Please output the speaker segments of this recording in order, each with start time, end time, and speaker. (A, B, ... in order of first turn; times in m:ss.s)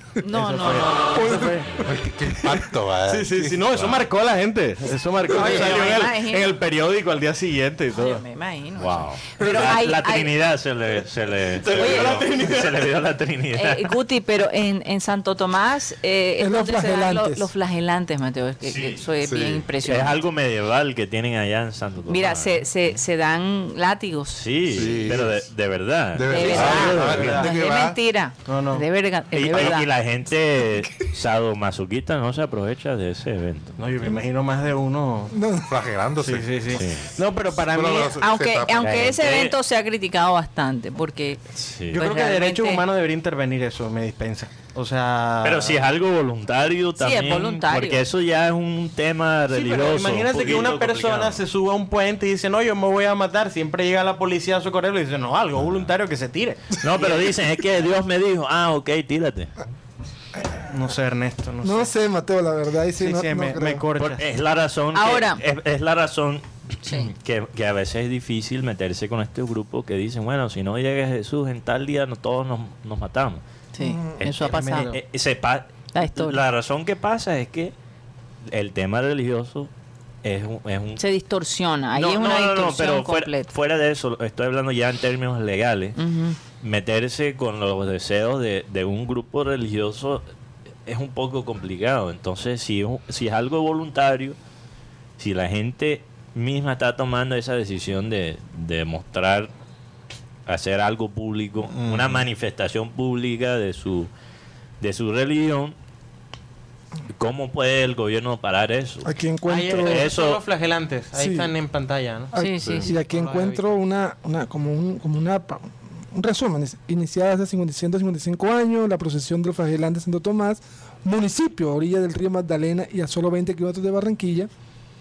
0:00.2-0:01.4 A
0:00.3-0:01.8 B
0:01.2-0:01.6 C
0:01.8-0:03.6 D
0:02.5-0:08.2 B
0:03.7-0:04.0 E
0:05.3-0:06.5 A
0:07.9-0:10.3 A
0:08.8-0:13.9 E
0:11.6-0:12.8 B
0:11.7-0:12.1 A
0:13.6-0:20.2 A
0:16.4-0:17.5 C
0:18.7-0:19.0 E
0:19.2-0:19.7 D
0:19.8-0:22.6 E
0:22.1-0:24.4 A
0:24.4-0:27.4 E
0:24.7-0:25.5 D
0:26.1-0:28.0 D
0:26.3-0:29.9 A
0:26.4-0:27.5 B
0:28.5-0:28.8 B
0:29.3-0:33.8 E
0:33.8-0:35.4 B
0:35.3-0:35.7 C
0:35.7-0:36.9 D
0:36.2-0:38.2 B
0:36.7-0:37.1 E
0:37.7-0:39.0 D
0:38.2-0:41.4 A
0:38.8-0:39.6 E
0:41.6-0:42.0 E
0:41.9-0:45.8 B
0:41.9-0:42.8 A
0:45.4-0:51.4 E
0:47.0-0:48.0 A
0:49.5-0:57.3 B
0:56.8-0:59.5 E
1:00.7-1:01.9 B
1:01.6-1:03.9 C
1:03.0-1:04.3 B
1:04.0-1:06.4 E
1:05.0-1:05.4 A
1:06.8-1:07.1 A
1:07.0-1:13.4 E
1:13.8-1:14.9 A
1:13.8-1:14.1 C
1:14.2-1:17.7 E
1:14.3-1:15.0 B
1:15.9-1:16.4 A
1:18.5-1:19.7 E
1:20.2-1:21.0 E
1:21.0-1:23.5 A
1:21.9-1:26.0 E
1:26.0-1:26.4 A
1:26.6-1:30.2 E
1:30.9-1:34.4 E
1:35.2-1:39.5 E
1:40.5-1:44.1 E
1:41.7-1:42.2 D
1:44.8-1:45.8 E
1:47.2-1:49.1 E
1:49.0-1:50.1 C
1:49.5-1:52.3 B
1:49.7-1:50.4 E
1:51.2-1:51.5 C
1:52.3-2:04.5 C
1:52.4-1:52.9 A
1:53.0-1:53.6 B